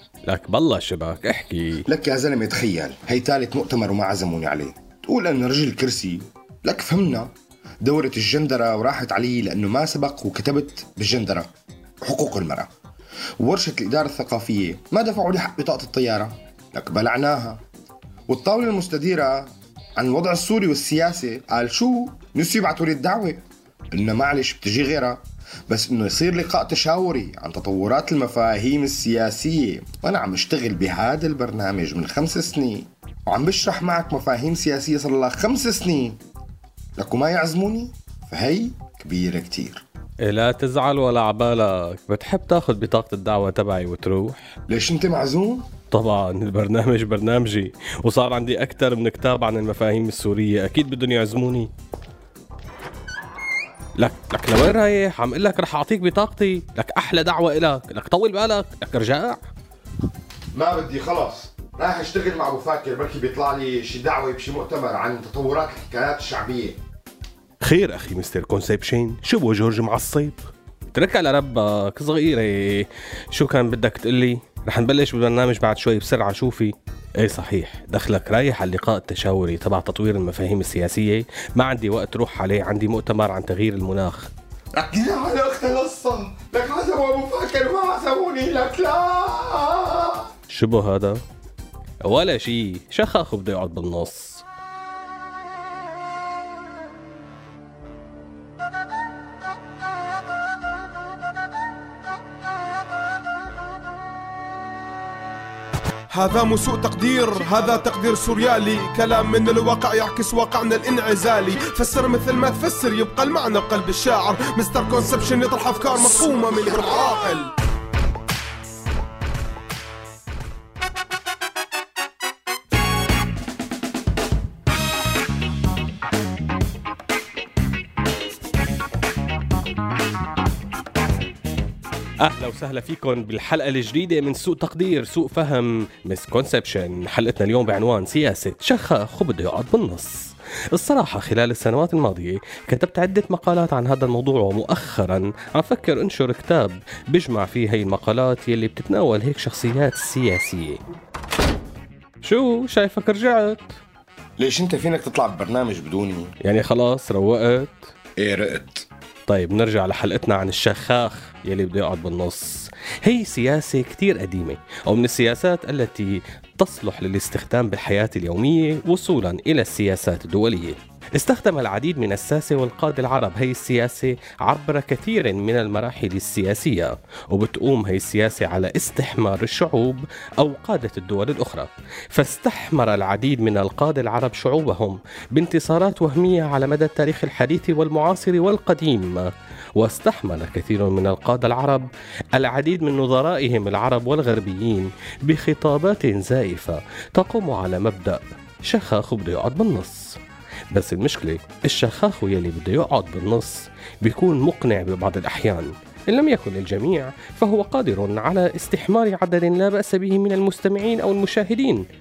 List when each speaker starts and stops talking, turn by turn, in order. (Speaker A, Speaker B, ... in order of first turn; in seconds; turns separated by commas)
Speaker A: 0.2-1.9, Speaker B: 1.9-7.3, Speaker B: 7.8-11.5, Speaker B: 12.0-12.7, Speaker B: 13.4-17.6, Speaker B: 18.3-36.2, Speaker B: 37.0-39.8, Speaker A: 40.2-44.5, Speaker B: 44.7-45.7, Speaker A: 45.9-51.7, Speaker A: 54.0-59.4, Speaker B: 60.5-66.8, Speaker A: 67.6-84.3, Speaker B: 84.8-90.3, Speaker A: 90.5-91.2, Speaker A: 92.0-94.4, Speaker C: 106.1-117.5, Speaker A: 132.2-150.8, Speaker A: 152.2-153.8, Speaker B: 154.4-156.3, Speaker A: 156.4-157.9, Speaker B: 158.2-158.9, Speaker A: 159.3-200.2, Speaker A: 200.7-211.8